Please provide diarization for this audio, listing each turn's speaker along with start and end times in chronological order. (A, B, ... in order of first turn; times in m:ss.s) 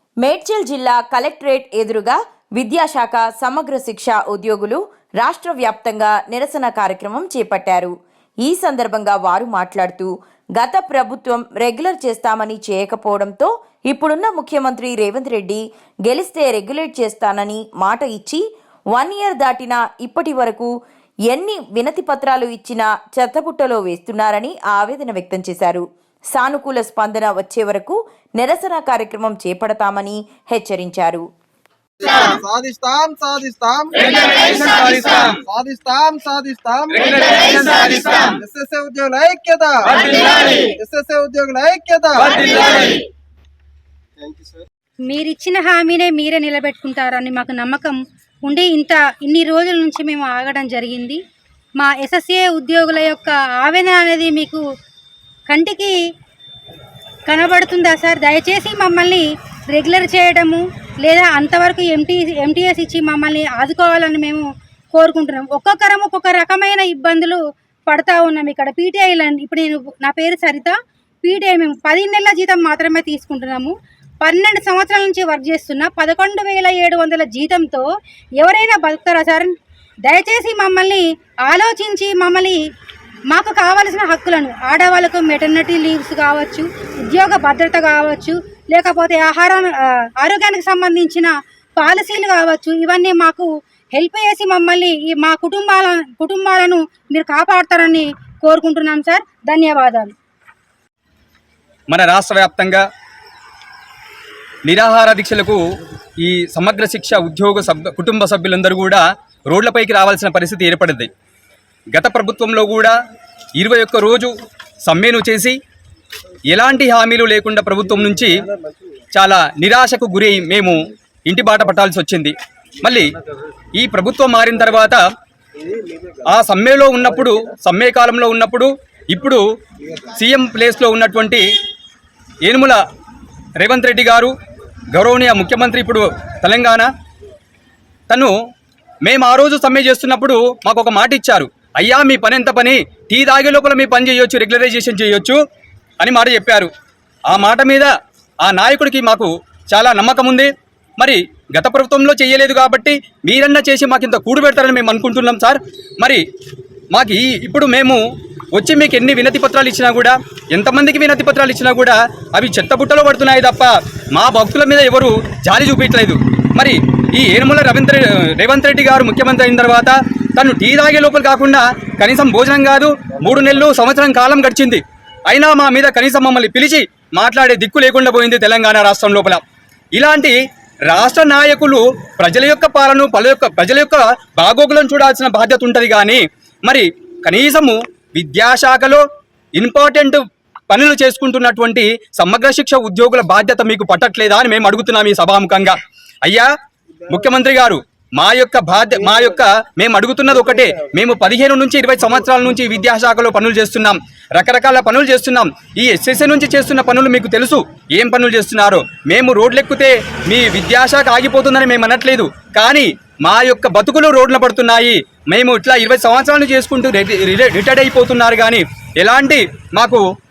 0:00.2-0:20.7 A
0:21.3-0:31.3 A
0:32.0-0:37.1 B
0:34.2-0:35.3 C
0:36.9-0:38.3 C
0:37.6-0:42.9 B
0:39.9-0:40.6 C
0:42.3-0:43.0 C
0:45.1-0:51.2 D
0:51.8-0:54.6 D
0:55.5-0:56.0 D
0:57.3-1:17.9 D
1:18.4-1:22.6 D
1:23.3-1:40.1 D
1:41.9-1:42.8 C
1:44.6-1:45.6 C
1:46.2-1:51.1 C
1:51.9-1:53.0 C
1:53.6-1:55.6 C
1:56.5-1:58.4 C
1:59.1-2:00.8 C
2:01.3-2:03.1 C
2:03.8-2:05.0 C
2:05.9-2:06.2 B
2:06.3-2:09.4 C
2:10.1-2:11.5 C
2:12.4-2:12.8 C
2:13.6-2:14.4 C
2:14.9-2:16.9 C
2:19.0-2:25.4 C
2:26.0-2:26.7 C
2:27.3-2:27.9 C
2:28.4-2:36.2 C
2:36.9-2:38.0 C
2:38.5-2:59.4 C
3:00.0-3:00.4 C
3:00.9-3:09.0 C
3:09.6-3:16.5 C
3:17.1-3:40.0 C